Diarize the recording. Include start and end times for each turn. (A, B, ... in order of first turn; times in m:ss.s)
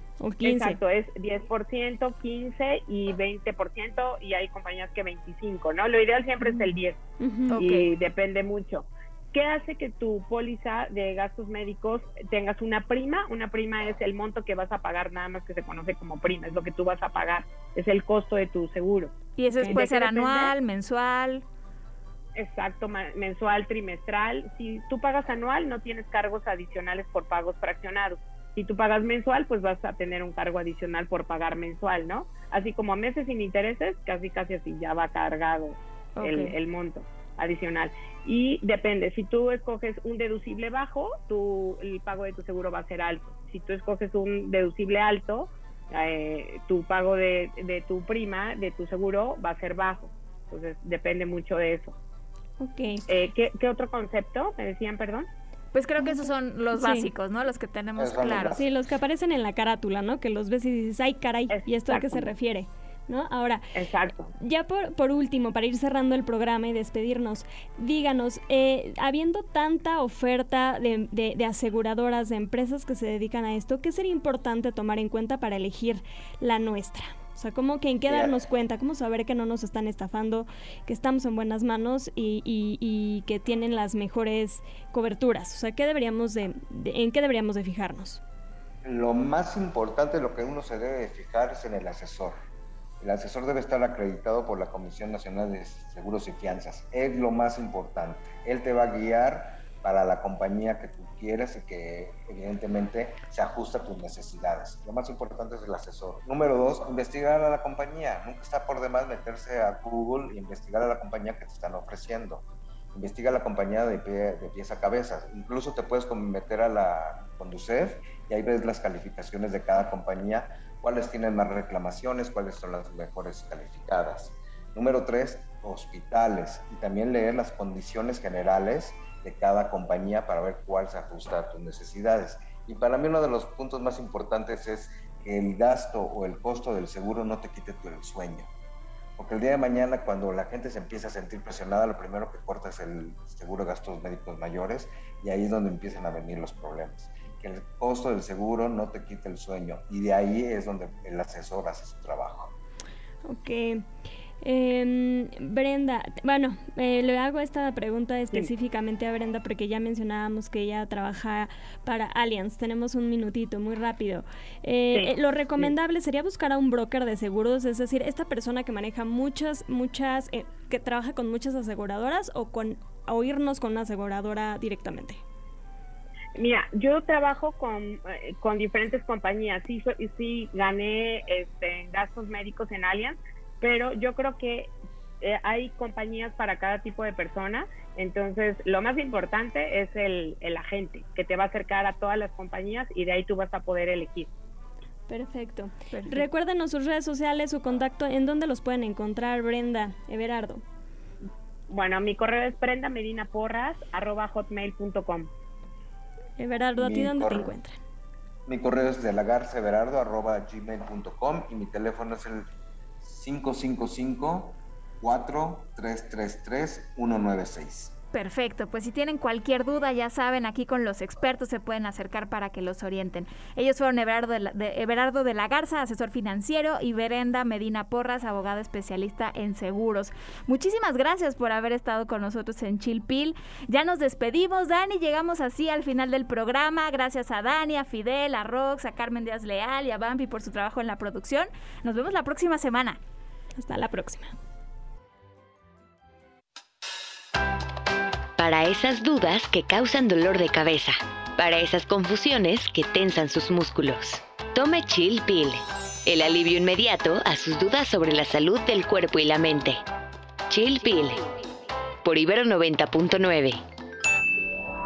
0:00.2-0:00.8 A
0:00.4-0:07.0 B
0:06.4-0:06.7 A
0:07.2-0:07.6 A
0:07.5-0:07.9 C
0:07.6-0:20.5 B
0:19.4-0:21.4 C
0:22.4-0:52.0 B
0:36.2-0:36.6 C
0:52.6-0:53.0 A
0:53.1-0:55.3 B
0:55.7-0:58.6 C
0:56.0-0:57.1 A
0:58.0-0:58.6 D
0:58.4-1:03.6 A
1:01.5-1:02.3 B
1:03.8-1:04.3 B
1:04.4-1:28.2 A
1:18.1-1:18.4 D
1:28.8-1:32.4 D
1:33.0-2:18.5 D
2:19.2-2:32.5 D
2:33.2-2:33.9 A
2:34.4-2:55.2 A
2:44.9-2:45.7 B
2:56.4-3:14.3 B
3:15.1-3:20.6 A
3:15.9-3:16.2 C
3:21.7-3:25.3 B
3:26.4-3:27.8 A
3:26.8-3:27.5 D
3:28.5-3:32.5 D
3:33.0-3:38.0 D
3:38.1-4:03.0 C
4:03.6-4:04.4 A
4:08.4-4:19.8 E
4:20.5-4:21.3 E
4:22.0-4:23.6 E